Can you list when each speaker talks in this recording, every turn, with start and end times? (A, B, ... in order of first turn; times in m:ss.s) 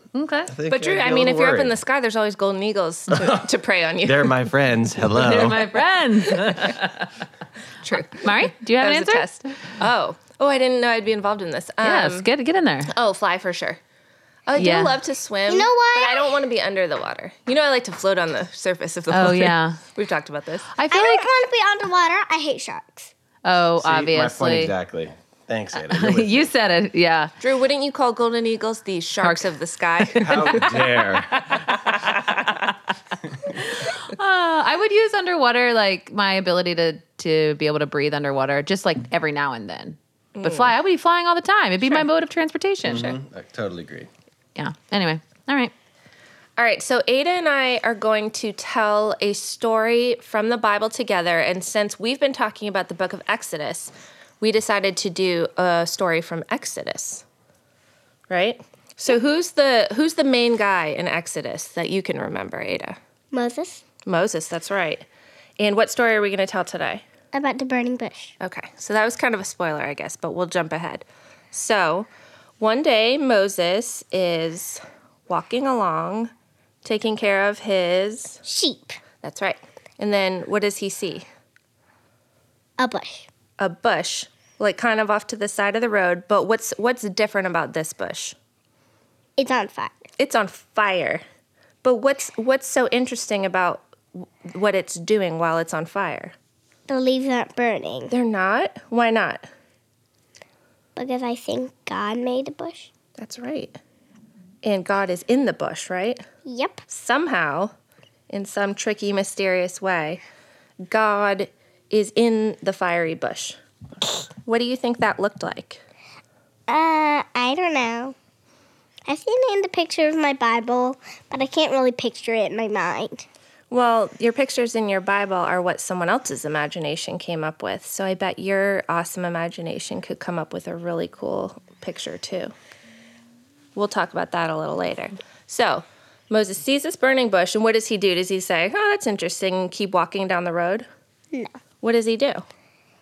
0:00.1-0:00.5 A
0:00.5-0:01.8 B
0:00.7-0:04.4 C
0:03.1-0:03.5 B
0:04.0-0:05.7 B
0:05.2-0:07.2 A
0:07.8-0:12.3 C
0:07.9-0:09.3 A
0:11.8-0:12.9 A
0:12.9-0:13.8 C
0:14.5-0:20.7 C
0:14.6-0:15.0 A
0:15.5-0:16.4 D
0:19.1-0:19.8 A
0:20.8-0:21.3 A
0:20.9-0:23.1 D
0:23.4-0:24.7 A
0:23.8-0:26.5 B
0:25.8-0:27.3 A
0:27.4-0:30.8 C
0:29.2-0:32.7 A
0:30.2-0:31.7 B
0:33.4-0:43.2 A
0:40.4-0:40.8 C
0:41.8-0:42.1 C
0:42.8-0:44.1 B
0:44.6-0:45.7 A
0:46.6-0:57.2 C
0:58.3-1:03.0 C
1:03.3-1:03.8 D
1:04.1-1:05.1 C
1:05.6-1:07.0 C
1:07.3-1:08.4 D
1:08.4-1:12.1 C
1:12.6-1:16.3 C
1:16.8-1:18.4 C
1:18.5-1:19.0 D
1:19.2-1:21.3 C
1:22.8-1:23.3 D
1:23.6-1:28.4 C
1:29.4-1:30.0 D
1:30.2-1:31.2 C
1:31.8-1:36.3 C
1:36.9-1:38.1 D
1:38.1-1:39.5 C
1:41.0-1:42.9 D
1:43.2-1:43.8 C
1:44.6-1:46.2 C
1:46.5-1:46.8 D
1:46.9-1:47.7 C
1:48.3-1:50.2 C
1:50.9-1:53.6 C
1:54.4-1:55.8 C
1:56.7-1:58.2 D
1:59.1-2:03.3 D
2:03.7-2:12.5 C
2:13.8-2:20.9 C
2:21.8-2:22.5 C